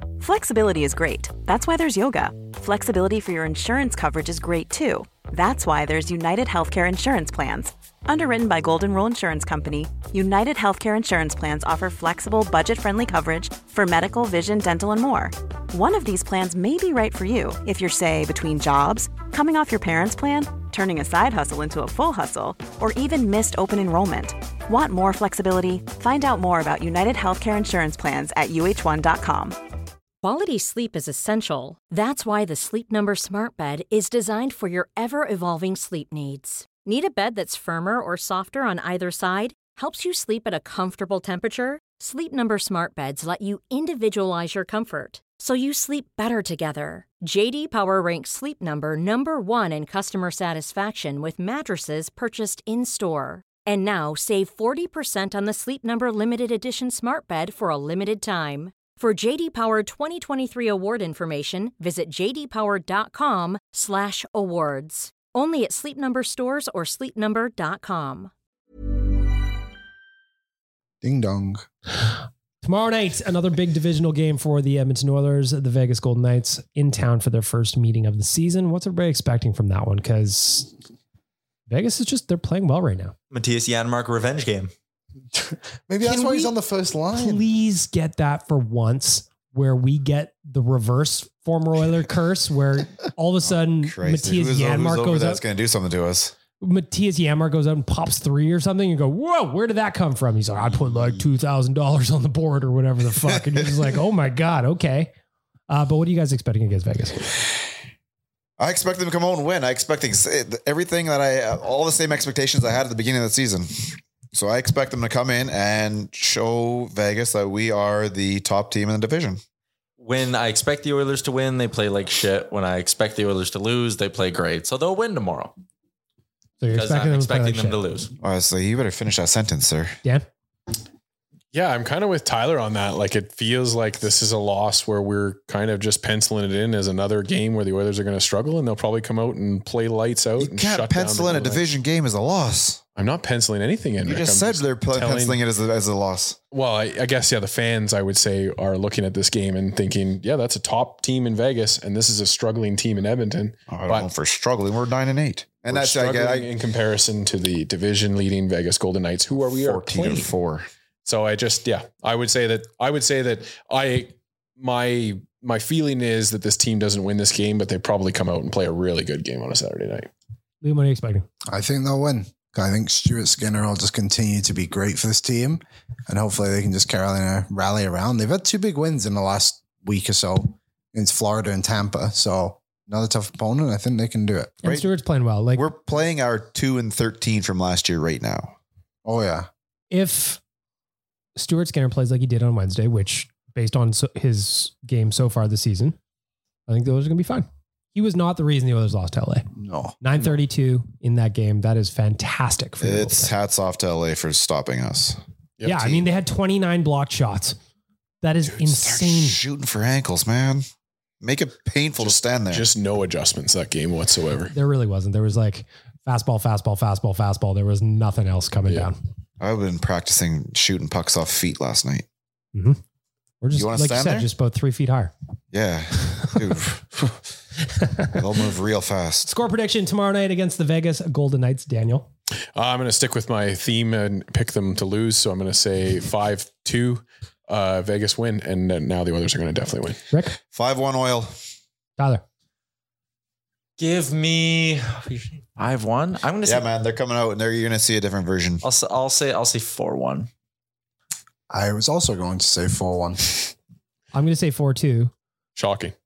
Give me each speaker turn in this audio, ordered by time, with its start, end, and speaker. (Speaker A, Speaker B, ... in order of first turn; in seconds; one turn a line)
Speaker A: 0.2-29.6
Speaker B: 30.2-68.3
Speaker C: 71.0-71.6
Speaker D: 72.6-80.7
Speaker D: 81.7-83.1
Speaker E: 83.3-84.7
Speaker C: 85.3-87.4
Speaker D: 86.0-86.5
Speaker D: 87.1-95.4
Speaker F: 93.5-96.3
Speaker D: 96.6-105.1
Speaker F: 100.7-101.2
Speaker F: 103.2-103.8
Speaker D: 105.7-107.3
Speaker F: 108.6-119.4
Speaker E: 120.0-125.5
Speaker D: 126.6-127.8
Speaker E: 126.7-128.1
Speaker F: 128.2-130.0
Speaker G: 131.5-141.7
Speaker F: 140.4-142.8
Speaker G: 142.9-145.4
Speaker F: 144.0-146.4
Speaker G: 146.5-154.1
Speaker F: 153.7-156.5
Speaker G: 155.7-160.3
Speaker F: 159.3-160.7
Speaker G: 161.0-170.1
Speaker D: 170.6-171.2
Speaker C: 171.5-184.6
Speaker D: 184.6-185.7
Speaker F: 185.5-188.5
Speaker C: 189.0-189.5
Speaker D: 189.9-190.4
Speaker D: 191.3-195.9
Speaker D: 196.7-199.5
Speaker C: 199.5-200.0
Speaker D: 200.0-203.3
Speaker F: 202.8-205.2
Speaker G: 205.6-205.9
Speaker D: 205.6-207.6
Speaker D: 208.2-209.4
Speaker F: 208.5-210.7
Speaker F: 211.2-212.7
Speaker G: 212.0-214.5
Speaker D: 214.5-218.9
Speaker F: 219.4-222.0
Speaker D: 222.5-222.8
Speaker D: 223.4-225.1
Speaker F: 223.5-224.3
Speaker F: 225.5-227.1
Speaker D: 227.7-228.1
Speaker F: 228.1-229.3
Speaker D: 229.2-232.1
Speaker G: 232.5-240.0
Speaker D: 240.1-240.4
Speaker F: 240.5-241.3
Speaker D: 242.0-242.2
Speaker E: 243.8-246.7
Speaker F: 246.4-248.6
Speaker E: 248.6-250.3
Speaker C: 251.5-253.5
Speaker D: 254.1-255.1
Speaker G: 255.6-255.9